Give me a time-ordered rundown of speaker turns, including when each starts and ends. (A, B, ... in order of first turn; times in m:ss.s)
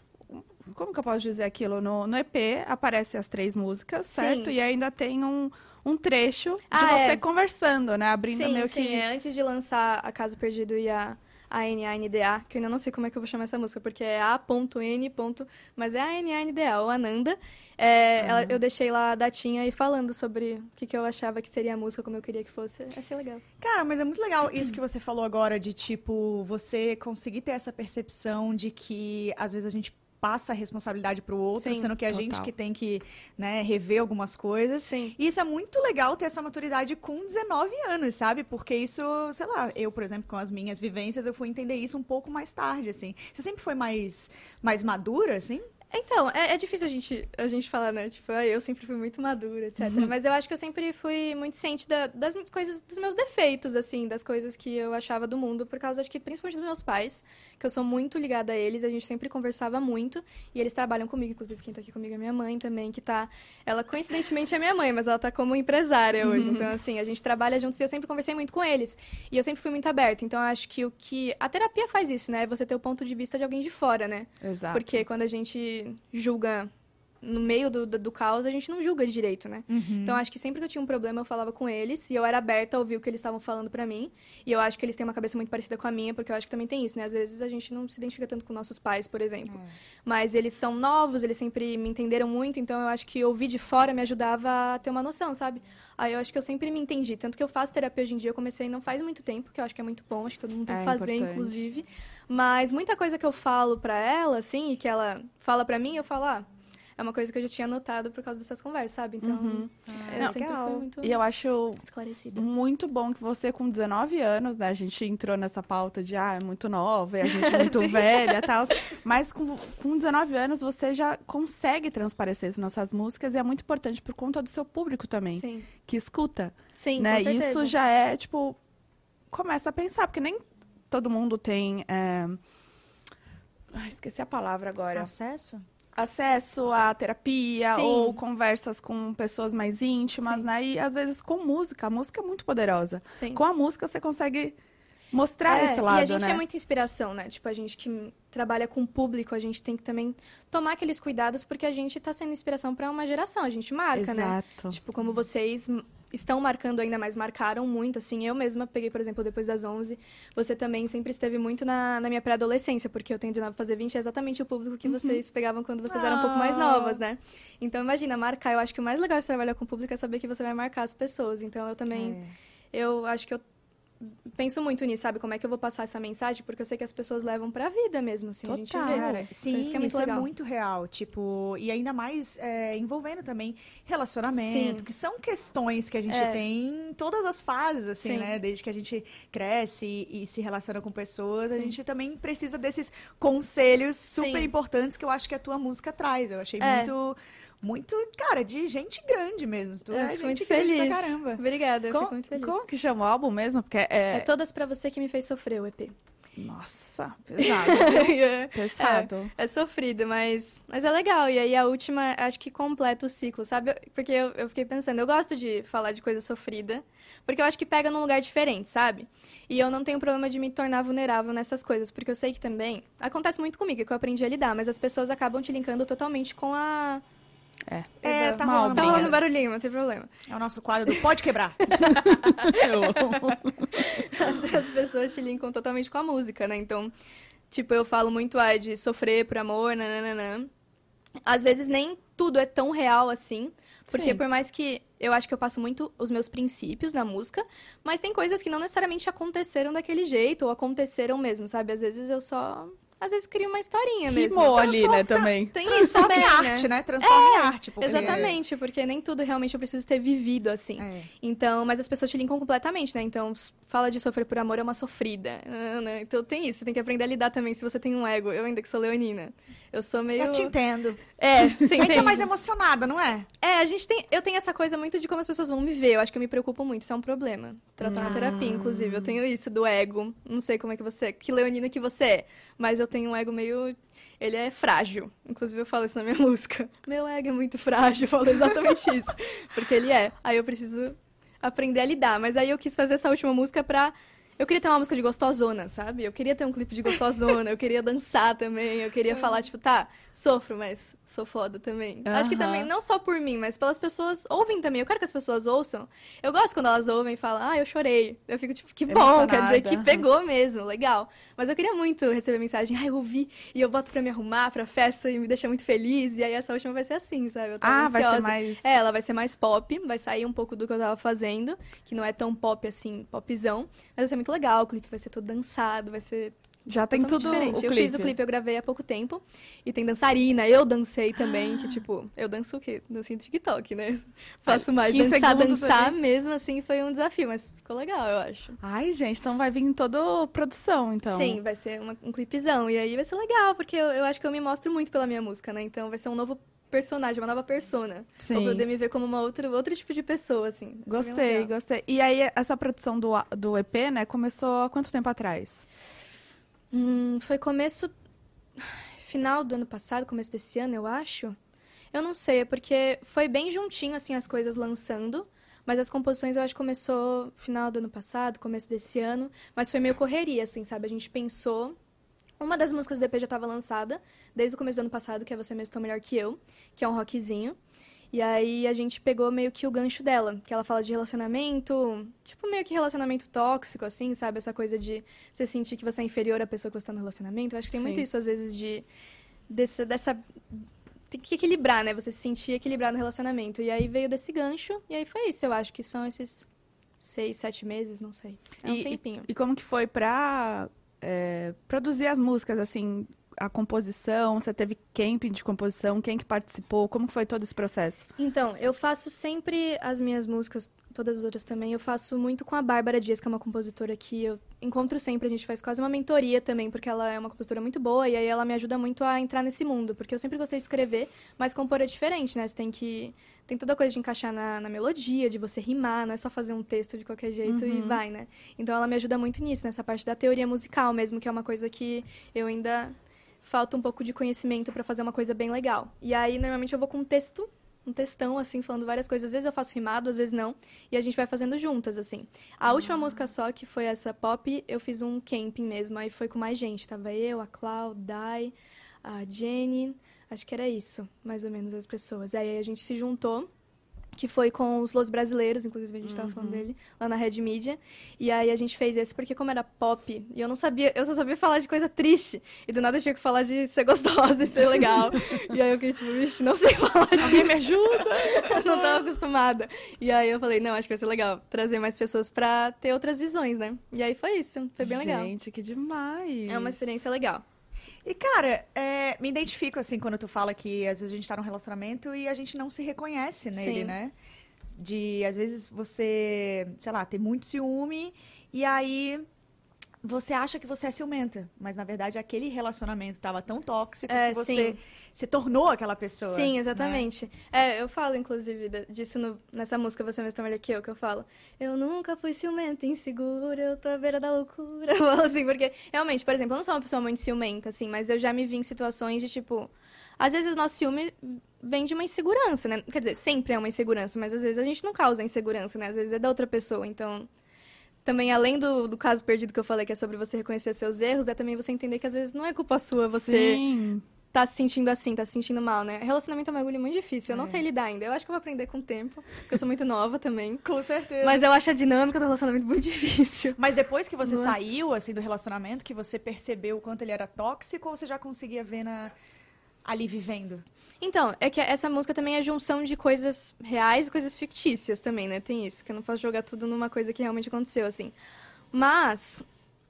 0:00.3-0:09.0 A
0:04.1-0:04.5 B
0:06.7-0:07.2 B
0:08.3-0:23.4 B
0:18.2-0:18.6 C
0:23.6-0:45.7 C
0:31.6-0:31.9 B
0:32.1-0:32.5 A
0:34.9-0:35.2 B
0:45.9-1:16.7 B
1:06.2-1:06.7 A
1:14.4-1:15.0 A
1:17.2-1:46.5 B
1:19.7-1:20.2 C
1:40.7-1:41.6 A
1:47.0-1:51.2 B
1:49.2-1:51.8 A
1:49.9-1:50.5 C
1:51.8-1:52.5 B
1:52.4-2:08.6 A
1:57.2-1:58.4 B
2:05.3-2:05.7 B
2:06.8-2:07.7 B
2:09.3-2:12.4 A
2:13.7-2:15.1 A
2:14.9-2:15.6 C
2:16.0-2:24.6 A
2:17.6-2:18.2 B
2:20.2-2:20.5 B
2:23.1-2:23.4 B
2:25.1-2:26.4 A
2:25.5-2:52.2 B
2:34.0-2:34.8 A
2:44.8-2:45.2 A
2:45.9-2:47.0 C
2:51.9-2:52.3 C
2:52.7-2:53.4 B
2:54.0-3:00.3 B
2:58.4-2:59.2 A
2:58.9-3:21.4 C
3:04.4-3:04.9 B
3:06.1-3:06.4 B
3:08.0-3:08.3 B
3:14.1-3:14.5 B
3:16.6-3:16.9 B
3:19.9-3:22.6 B
3:21.9-3:24.3 A
3:24.1-3:26.0 B
3:26.4-3:29.3 A
3:27.4-3:47.0 B
3:47.7-3:49.2 A
3:48.0-3:50.1 B
3:48.0-3:49.2 C
3:50.3-3:51.7 C
3:51.6-3:52.9 B
3:51.8-3:53.7 A
3:53.7-3:56.9 B
3:57.5-4:00.5 B
4:01.3-4:30.6 B
4:03.9-4:04.2 A
4:14.1-4:15.5 A
4:15.6-4:18.4 C
4:17.8-4:18.3 A
4:20.8-4:21.1 C
4:30.2-4:31.0 C
4:31.2-4:32.2 A
4:31.2-4:32.3 B
4:31.7-4:33.3 C
4:33.4-5:38.6 B
4:37.8-4:39.2 A
4:38.0-4:38.4 C
5:02.1-5:02.7 A
5:08.9-5:10.0 A
5:17.6-5:18.6 A
5:26.7-5:28.1 A
5:34.5-5:36.0 A
5:38.6-5:41.4 A
5:41.1-5:51.5 B
5:48.2-5:48.7 A
5:50.9-5:55.6 A
5:56.7-5:57.9 B
5:58.6-6:01.4 B
6:01.9-6:11.8 B
6:12.4-6:17.6 B
6:18.1-6:28.8 B
6:27.7-6:28.0 A
6:29.5-6:36.5 B
6:37.0-6:39.3 B
6:38.6-6:48.1 A
6:48.2-7:33.5 B
7:07.5-7:08.0 A
7:34.2-7:47.6 B
7:36.0-7:36.7 A
7:47.2-7:49.0 A
7:48.2-7:55.3 B
7:54.8-7:56.8 A
7:56.5-7:57.4 B
7:58.0-8:04.1 C
8:03.6-8:04.0 B
8:04.8-8:09.2 C
8:10.0-8:17.0 C
8:14.1-8:14.8 B
8:16.2-8:37.3 B
8:38.0-8:43.6 B
8:43.2-8:44.0 A
8:44.3-8:50.6 B
8:47.3-8:47.6 C
8:50.6-8:51.4 C
8:51.2-8:53.6 B
8:53.6-8:59.1 C
8:54.2-8:54.7 B
8:59.8-9:00.6 C
9:01.0-9:08.1 B
9:08.7-9:09.5 B